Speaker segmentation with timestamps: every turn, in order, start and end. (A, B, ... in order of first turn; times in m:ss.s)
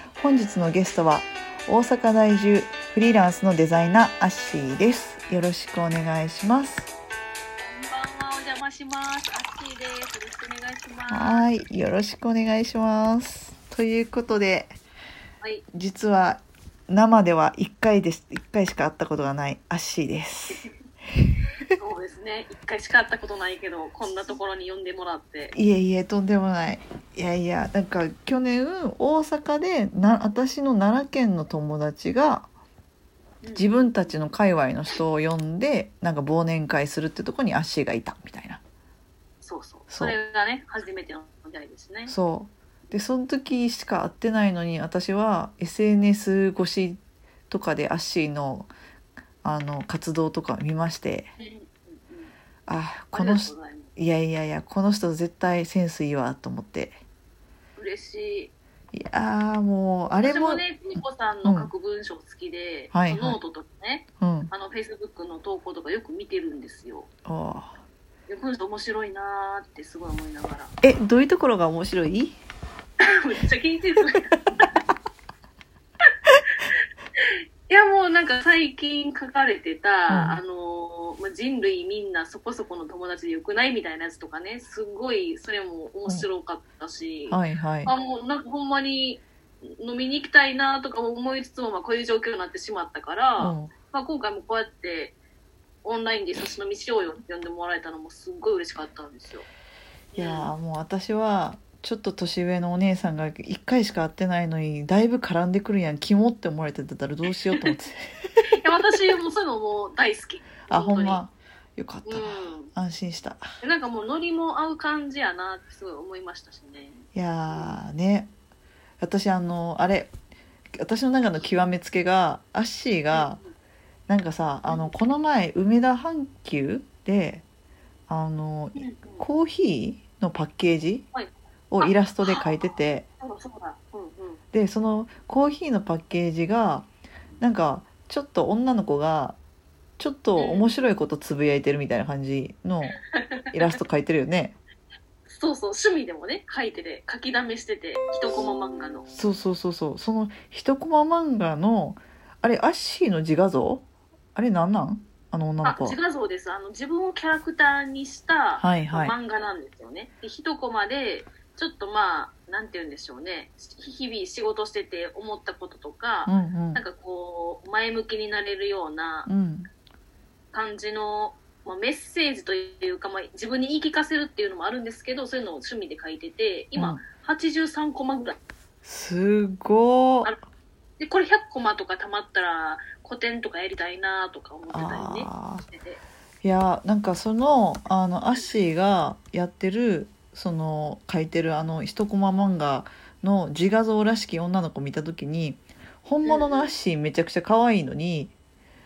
0:00.2-0:06.9 A
0:07.6-0:11.5 B
0:11.1-0:14.7 A
0:15.7-0:20.6 A
0:21.8-0:25.5 B
0:25.5-0:32.5 A
0:33.4-0:34.1 B
0:33.5-0:38.6 A
0:39.4-0:42.1 B
0:39.9-0:40.2 A
0:42.0-0:48.7 A
0:49.4-0:51.3 A
0:51.4-0:52.3 B
0:52.7-0:57.0 A
0:53.1-0:53.9 B
0:57.8-0:58.5 B
0:58.9-1:01.7 A
1:00.1-1:07.1 B
1:02.9-1:03.4 A
1:04.2-1:04.5 A
1:07.2-1:07.8 A
1:08.3-1:10.7 B
1:10.8-1:12.4 A
1:13.1-1:14.3 B
1:17.2-1:35.1 B
1:20.1-1:20.4 A
1:27.3-1:27.9 A
1:33.4-1:33.7 A
1:35.8-1:39.4 B
1:40.1-1:40.5 B
1:40.2-1:48.1 A
1:48.6-1:51.2 B
1:50.6-1:53.4 A
1:52.0-1:52.7 B
1:53.6-1:57.8 B
1:57.1-1:58.3 A
1:59.0-2:00.1 A
2:00.7-2:03.4 A
2:03.1-2:03.5 B
2:04.1-2:07.4 A
2:04.7-2:04.9 B
2:08.1-2:11.0 A
2:08.8-2:09.2 B
2:11.1-2:12.5 B
2:11.7-2:13.0 A
2:13.2-2:14.4 B
2:14.5-2:16.9 A
2:17.4-2:19.4 A
2:20.0-2:23.0 A
2:20.4-2:20.7 B
2:23.1-2:23.5 B
2:23.5-2:24.6 A
2:25.3-2:29.1 B
2:29.1-2:36.0 A
2:35.6-2:49.3 B
2:38.6-2:39.1 A
2:46.2-2:46.8 A
2:49.2-2:49.7 A
2:50.5-2:58.4 B
2:56.7-2:57.0 A
2:58.8-3:00.3 A
3:01.0-3:06.0 B
3:04.7-3:05.6 A
3:06.4-3:18.3 A
3:16.2-3:16.7 B